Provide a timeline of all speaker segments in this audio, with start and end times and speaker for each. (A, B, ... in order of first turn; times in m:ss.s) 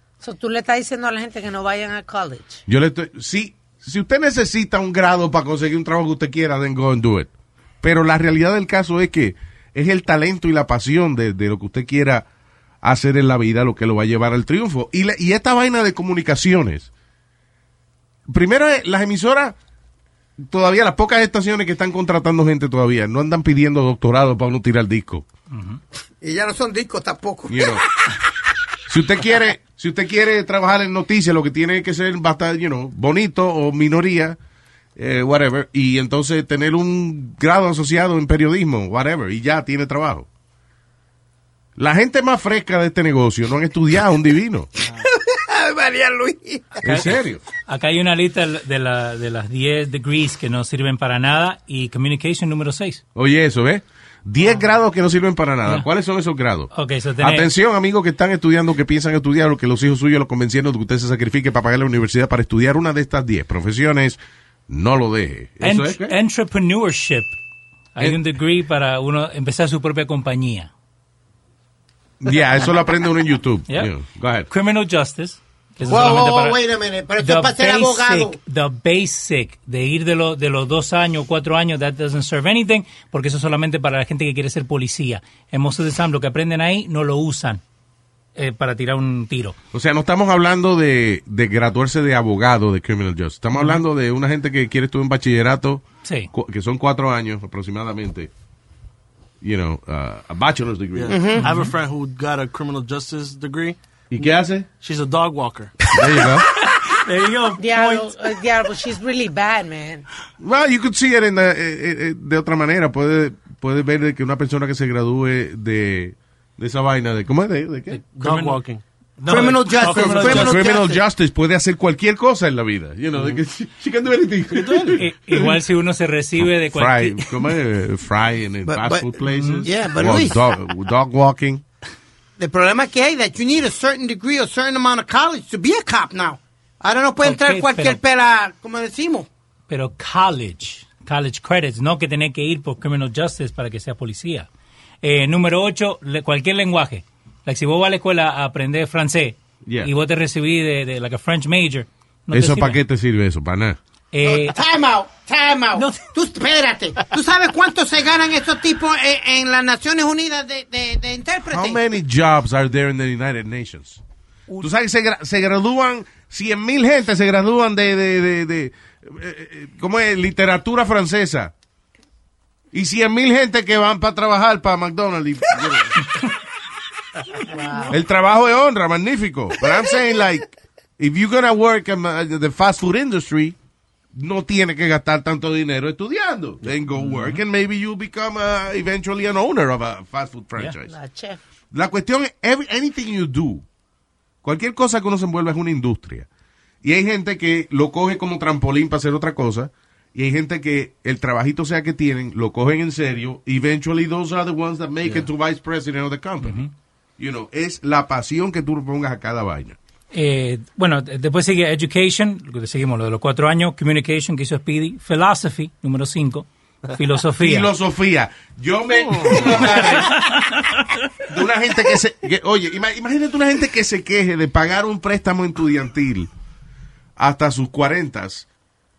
0:00.2-0:02.6 A
0:02.7-0:07.3 B
0:07.8-0:12.3 B
0:12.8-0:16.9 B
0:18.3-0:19.6 B
0:20.4-0:25.3 B
0:25.5-0:25.8 C
0:26.2-0:27.8 D
0:27.5-0:27.8 B
0:28.9-0:34.4 B
0:35.0-0:40.3 B
0:41.8-0:44.7 B
0:44.9-0:46.9 D
0:46.8-0:47.4 B
0:46.8-0:53.0 C
0:53.2-1:06.2 B
0:56.7-0:57.5 C
1:05.6-1:07.4 C
1:08.0-1:10.7 C
1:12.2-1:14.5 B
1:14.5-1:16.6 C
1:15.9-1:18.4 D
1:17.2-1:27.6 C
1:28.4-1:29.6 C
1:29.7-1:38.3 B
1:36.0-1:36.3 C
1:39.4-1:41.2 B
1:41.0-1:44.2 E
1:41.1-1:41.5 D
1:41.4-1:41.7 C
1:44.1-1:44.7 B
1:44.8-1:46.0 E
1:45.9-1:46.5 B
1:46.7-1:48.1 C
1:47.6-1:50.1 A
1:50.4-1:58.0 B
1:57.9-1:58.6 C
1:58.1-1:58.8 E
1:59.2-2:00.6 C
1:59.2-2:01.0 D
1:59.8-2:05.6 B
2:04.8-2:07.4 C
2:06.4-2:11.6 B
2:08.7-2:09.1 D
2:09.3-2:09.7 C
2:09.6-2:10.5 D
2:12.4-2:19.3 D
2:17.2-2:18.0 C
2:19.7-2:24.5 C
2:25.0-2:32.8 C
2:29.6-2:29.9 B
2:32.3-2:33.8 B
2:34.1-2:34.6 C
2:34.2-2:41.8 D
2:35.8-2:36.0 C
2:41.5-2:44.0 B
2:44.6-2:51.5 B
2:52.7-2:56.1 B
2:57.5-2:57.9 A
2:57.9-3:03.6 B
3:04.1-3:10.9 B
3:07.1-3:07.4 C
3:10.9-3:11.4 A
3:11.7-3:13.6 B
3:14.4-3:16.3 B
3:16.8-3:26.6 B
3:26.4-3:26.7 C
3:27.2-3:29.8 B
3:30.1-3:37.7 C
3:37.4-3:40.2 B
3:39.5-3:40.8 C
3:41.3-3:46.3 B
3:47.2-3:48.5 B